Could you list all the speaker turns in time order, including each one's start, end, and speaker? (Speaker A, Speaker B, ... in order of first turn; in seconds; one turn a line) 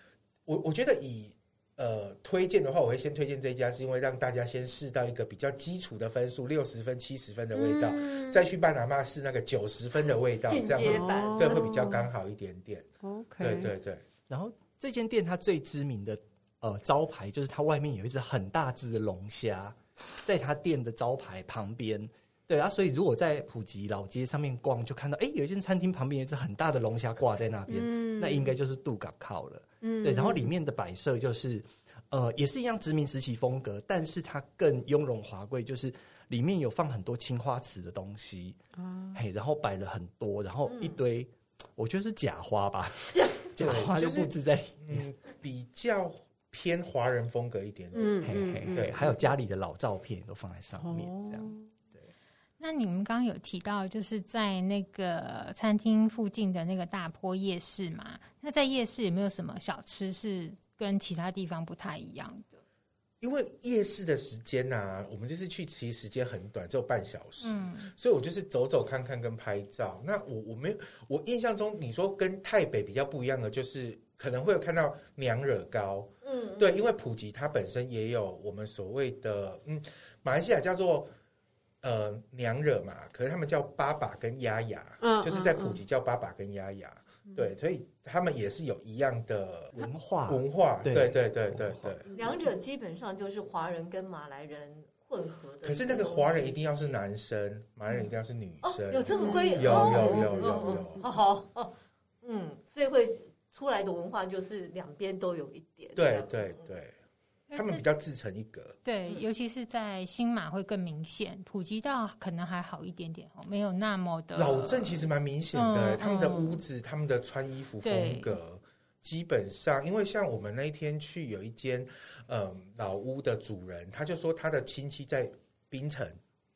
Speaker A: 0.5-12.9
Speaker B: 7.5-8.4
Speaker C: 10.5-11.8
Speaker B: 10.8-12.1
Speaker B: 13.0-13.7
Speaker A: 13.4-14.0
Speaker D: 14.3-38.6
Speaker B: 27.7-28.5
Speaker B: 29.8-30.5
Speaker B: 38.8-39.2
Speaker D: 39.1-45.0
Speaker C: 40.7-41.0
Speaker C: 43.1-43.5
Speaker A: 43.6-49.1
Speaker B: 47.9-49.2
Speaker D: 48.2-52.1
Speaker B: 50.8-51.7
Speaker E: 52.6-62.6
Speaker A: 63.2-81.1
Speaker E: 67.4-67.9
Speaker C: 76.2-76.8
Speaker A: 81.8-92.1
Speaker B: 85.0-85.8
Speaker D: 89.8-92.0
Speaker B: 92.1-92.3
Speaker C: 92.1-96.9
Speaker A: 95.6-101.0
Speaker C: 98.6-106.7
Speaker B: 99.2-100.3
Speaker A: 106.0-107.0
Speaker E: 107.5-107.8
Speaker A: 107.5-108.8
Speaker E: 108.8-116.6
Speaker A: 114.4-126.2
Speaker E: 117.8-118.4